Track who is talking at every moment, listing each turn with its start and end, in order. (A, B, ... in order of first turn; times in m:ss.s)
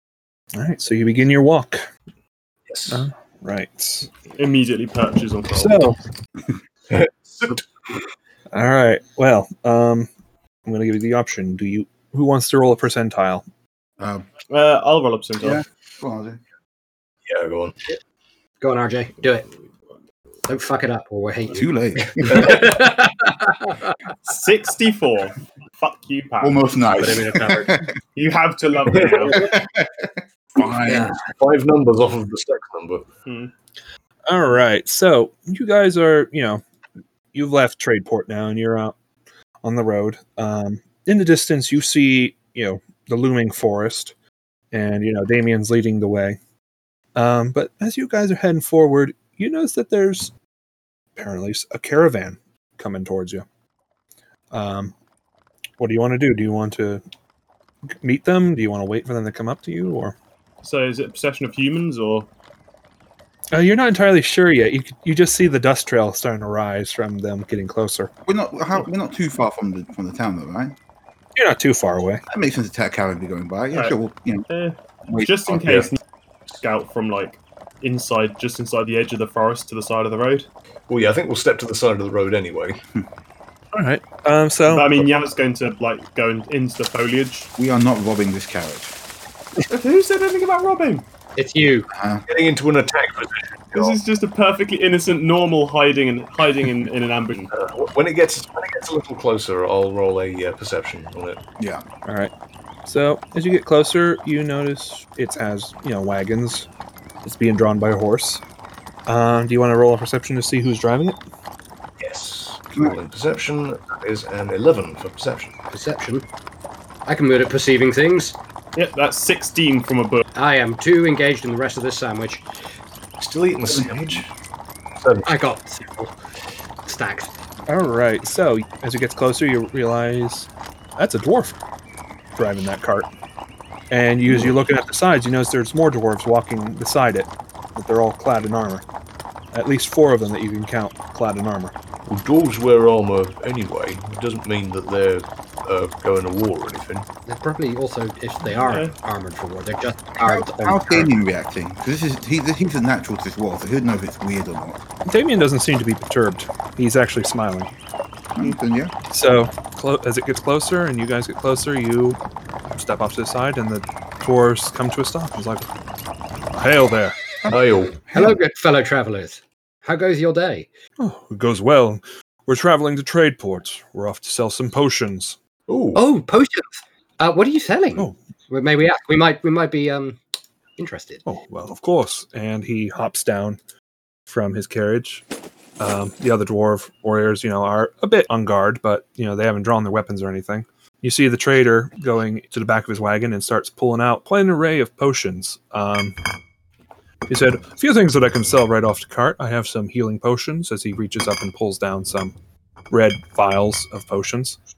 0:00.5-0:01.9 A
0:02.7-0:03.0 B
0:02.9-0:04.1 A
0:04.4-0:05.8 C
0:05.5-0:06.0 A
0:06.9-0:07.6 B
0:08.5-0:10.1 A
0:10.6-0:13.4 A
0:14.0-0:14.2 D
0:14.5-0:15.6 C
0:15.4-0:16.4 D
0:17.2-0:17.8 B
0:18.6-0:19.5 E
0:20.4-0:23.9 E
0:21.5-0:22.6 D
0:22.2-0:22.8 B
0:24.2-0:27.4 C
0:26.4-0:27.9 D
0:27.0-0:27.7 E
0:28.1-0:29.5 C
0:28.9-0:29.3 B
0:29.2-0:31.2 D
0:30.8-0:31.2 E
0:31.3-0:33.0 B
0:33.2-0:33.5 C
0:34.3-0:36.6 A
0:37.3-0:39.0 A
0:39.6-0:44.1 A
0:44.7-0:46.4 A
0:47.1-0:50.3 A
0:51.2-0:53.4 A
0:54.5-0:54.9 A
0:55.8-0:57.0 A
0:58.0-1:00.1 A
1:00.6-1:02.3 C
1:03.5-1:08.1 A
1:08.2-1:10.7 D
1:11.4-1:12.2 A
1:12.3-1:14.5 D
1:13.7-1:14.0 C
1:14.5-1:16.0 C
1:15.1-1:15.7 D
1:16.6-1:20.5 C
1:20.9-1:22.8 B
1:23.7-1:25.1 A
1:24.7-1:27.5 C
1:27.6-1:28.9 D
1:29.7-1:31.0 C
1:31.4-1:31.9 E
1:31.9-1:32.2 D
1:32.3-1:34.0 B
1:33.7-1:37.5 C
1:37.5-1:41.4 B
1:41.6-1:41.8 D
1:42.0-1:42.3 A
1:42.8-1:46.7 A
1:47.2-1:48.4 A
1:49.0-1:51.2 A
1:52.0-1:55.5 B
1:55.7-1:56.2 E
1:57.0-1:58.4 E
1:58.7-2:00.2 C
2:00.3-2:02.4 E
2:03.2-2:04.3 B
2:03.7-2:04.0 D
2:05.0-2:05.3 B
2:05.2-2:06.1 E
2:06.8-2:07.3 E
2:07.7-2:11.6 A
2:12.4-2:13.1 A
2:13.9-2:18.8 A
2:19.5-2:21.7 A
2:22.0-2:27.1 B
2:27.2-2:31.1 E
2:28.6-2:28.9 C
2:30.2-2:34.8 D
2:35.0-2:37.7 A
2:38.4-2:38.9 D
2:39.1-2:42.2 A
2:42.7-2:45.6 A
2:46.5-2:47.2 A
2:47.4-2:48.4 D
2:47.5-2:48.0 B
2:48.1-2:50.7 E
2:51.0-2:55.4 A
2:55.7-2:56.0 B
2:55.9-3:00.2 E
3:00.8-3:01.2 E
3:01.2-3:03.6 A
3:04.3-3:05.2 A
3:05.8-3:16.2 A
3:17.3-3:22.3 A
3:22.9-3:24.6 A